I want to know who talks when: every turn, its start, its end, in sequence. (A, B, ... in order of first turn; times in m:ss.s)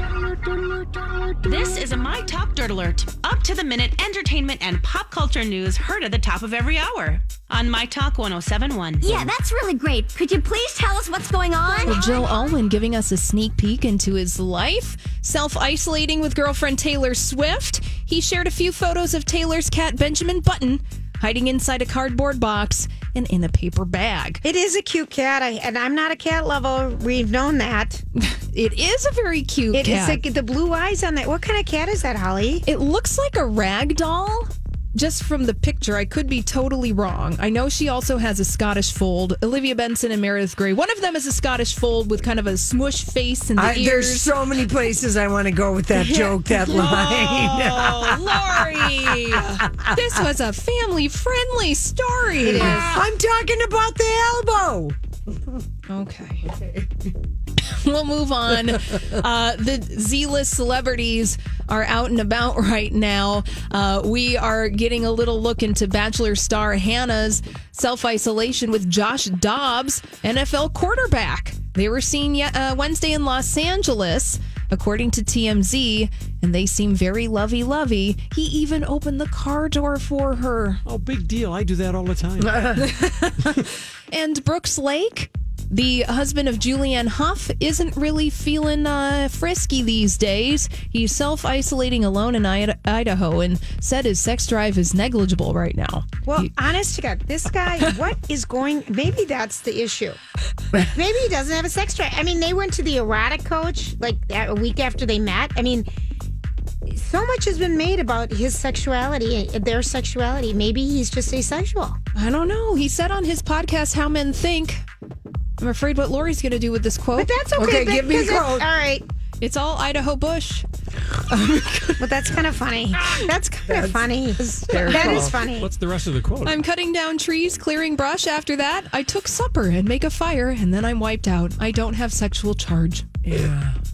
0:01.4-0:09.3 A
0:09.0-0:12.3 B
0:11.8-0:24.4 C
0:24.4-0:28.0 D
0:28.2-0:30.2 C
0:29.7-0:32.6 D
0:32.6-0:44.4 C
0:43.6-0:49.6 E
0:45.9-0:52.9 C
0:52.4-0:55.0 E
0:52.4-0:53.0 D
0:55.9-0:56.5 C
0:57.6-1:20.8 C
1:20.9-1:22.6 F
1:23.0-1:23.5 C
1:24.1-1:36.5 C
1:36.3-1:40.2 D
1:40.7-1:45.9 D
1:46.9-1:52.0 D
1:52.1-1:54.8 C
1:55.6-1:57.3 C
1:57.2-1:59.0 D
1:57.6-1:58.7 E
1:59.4-2:00.6 C
2:01.2-2:02.0 C
2:02.0-2:05.7 D
2:03.7-2:05.4 E
2:05.6-2:06.6 F
2:06.4-2:13.1 C
2:13.2-2:13.8 E